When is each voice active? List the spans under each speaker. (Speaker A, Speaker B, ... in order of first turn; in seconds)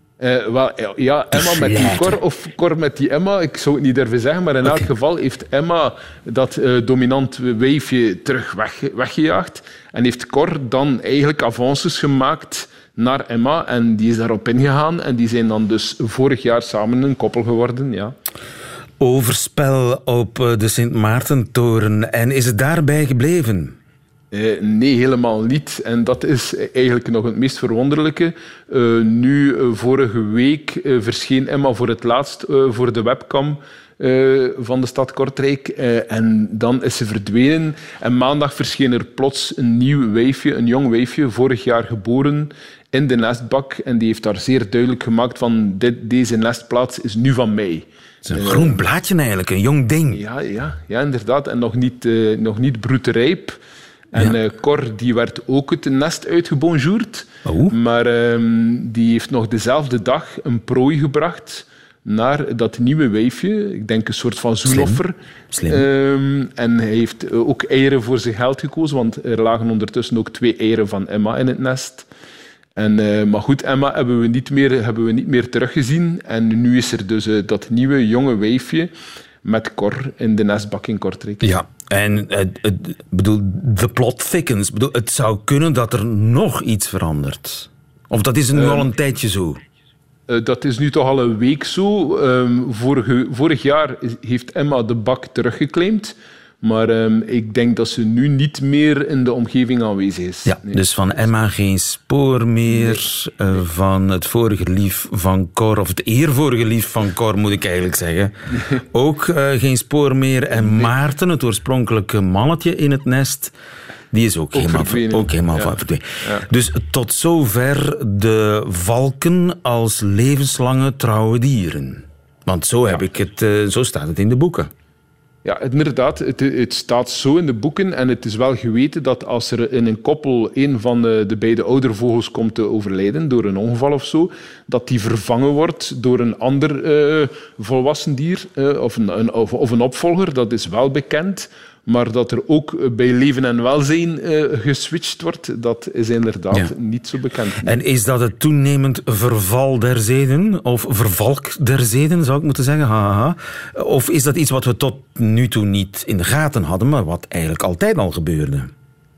Speaker A: 0.2-18.1, 24.3-48.8, 50.1-53.6, 54.1-65.2, 65.7-72.1, 72.8-78.9, 79.4-81.6, 88.5-88.9, 90.3-101.2, 102.7-103.0, 110.5-110.9, 114.5-116.5, 125.4-147.8
Speaker B: 1.3-2.2, 19.0-23.8, 48.3-50.2, 57.5-57.8, 64.6-65.0, 65.5-65.9, 81.4-89.6, 100.5-113.5, 114.1-124.7, 147.6-158.7